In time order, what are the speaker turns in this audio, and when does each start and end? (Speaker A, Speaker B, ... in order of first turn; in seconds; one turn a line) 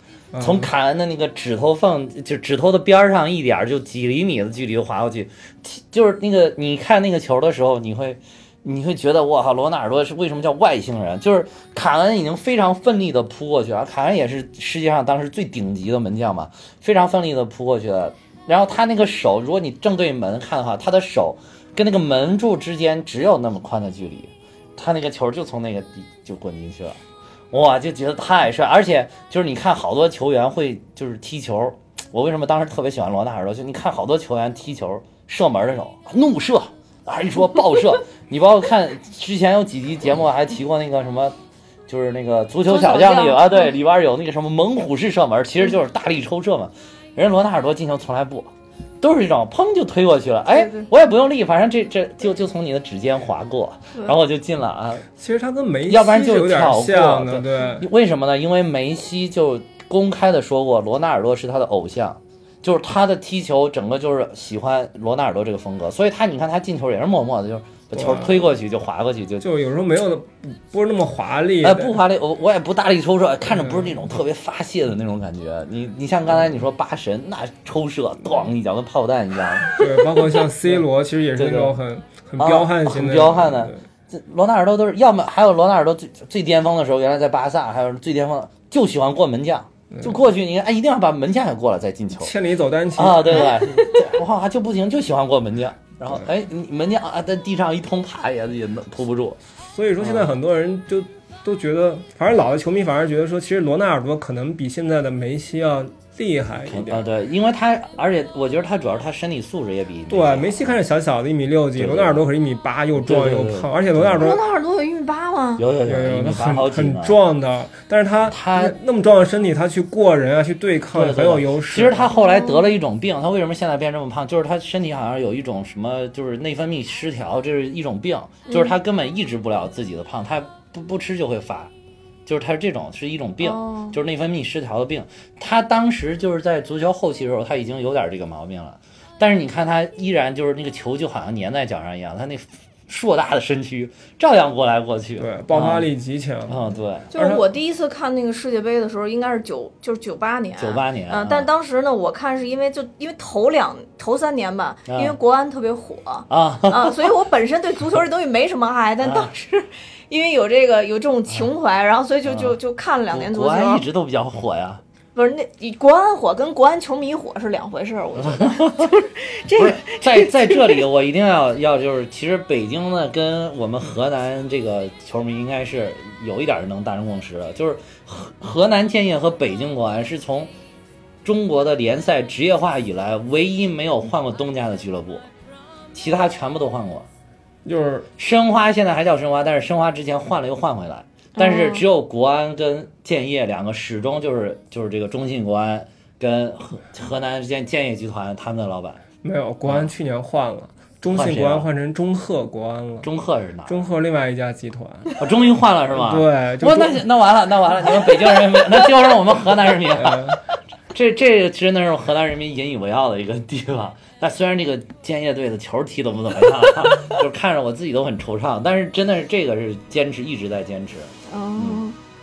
Speaker A: 0.3-0.7
Speaker B: 0.4-27.0
Speaker B: 27.5-41.4
Speaker B: 41.9-55.1
Speaker C: 42.6-43.7
Speaker A: 55.2-57.9
Speaker B: 55.9-69.5
Speaker A: 68.0-68.4
Speaker A: 69.4-72.0
Speaker B: 71.6-79.9
Speaker A: 73.5-74.0
Speaker A: 79.7-83.8
Speaker B: 81.4-81.8
Speaker B: 82.4-92.3
Speaker A: 89.9-90.2
Speaker A: 92.2-93.6
Speaker B: 93.0-99.4
Speaker A: 99.7-107.0
Speaker B: 100.0-100.3
Speaker B: 106.7-110.8
Speaker A: 110.1-114.4
Speaker B: 111.8-112.2
Speaker B: 113.0-114.3
Speaker C: 114.2-115.6
Speaker B: 115.6-117.2
Speaker A: 115.8-122.1
Speaker B: 118.3-118.8
Speaker B: 120.9-131.7
Speaker C: 122.1-122.7
Speaker B: 132.3-145.9
Speaker C: 133.4-133.9
Speaker A: 145.2-147.4
Speaker B: 146.5-147.1
Speaker C: 147.1-163.8
Speaker B: 150.6-151.5
Speaker B: 154.9-155.2
Speaker B: 156.3-157.1
Speaker B: 159.0-159.3
Speaker B: 162.3-162.6
Speaker B: 163.1-164.8
Speaker C: 165.2-170.8
Speaker B: 168.2-168.9
Speaker B: 169.5-180.5
Speaker B: 181.2-185.3
Speaker B: 185.9-187.1
Speaker A: 187.7-188.1
Speaker B: 188.2-199.0
Speaker C: 191.4-191.8
Speaker A: 199.2-203.1
Speaker B: 201.1-201.7
Speaker B: 203.0-203.8
Speaker A: 203.7-205.1
Speaker B: 205.2-210.4
Speaker A: 205.9-207.1
Speaker A: 209.9-210.4
Speaker B: 210.9-221.8
Speaker C: 221.3-222.0